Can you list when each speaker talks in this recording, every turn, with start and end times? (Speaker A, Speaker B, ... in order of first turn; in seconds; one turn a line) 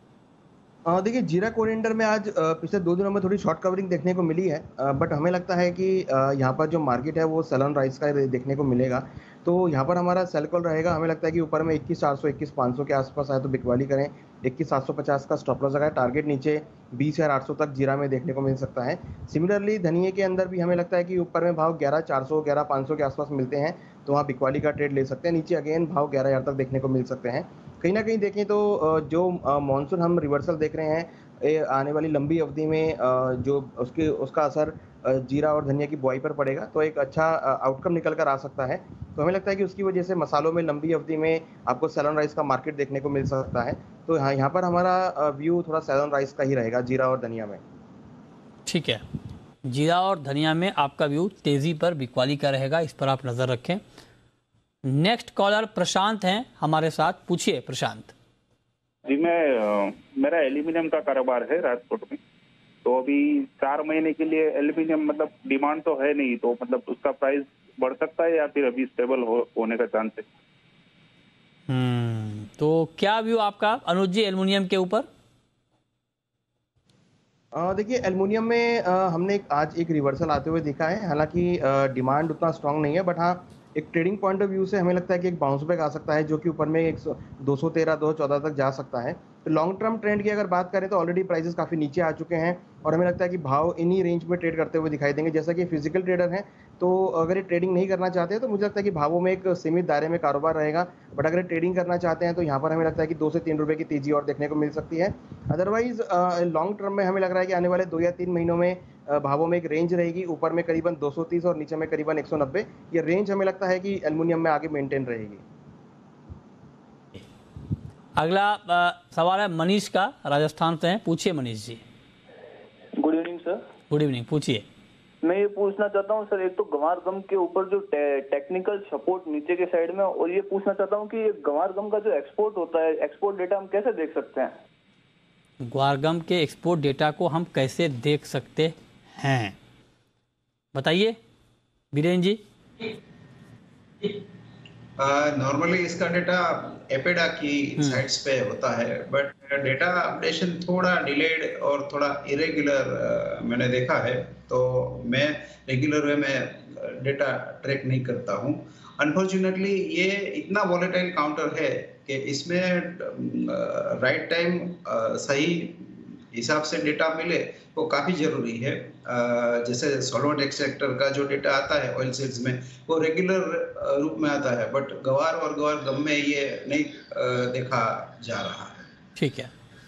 Speaker A: 0.9-47.6
Speaker B: 48.7-49.0
Speaker B: 49.6-53.8
Speaker B: 54.9-58.1
Speaker C: 59.1-62.2
Speaker C: 62.9-70.2
Speaker B: 71.7-75.1
Speaker A: 77.5-115.4
Speaker B: 118.2-121.8
Speaker D: 123.0-123.7
Speaker B: 123.9-124.7
Speaker D: 125.2-134.6
Speaker B: 135.6-139.6
Speaker B: 140.7-141.2
Speaker B: 141.9-142.4
Speaker E: 145.0-178.9
Speaker B: 179.2-179.5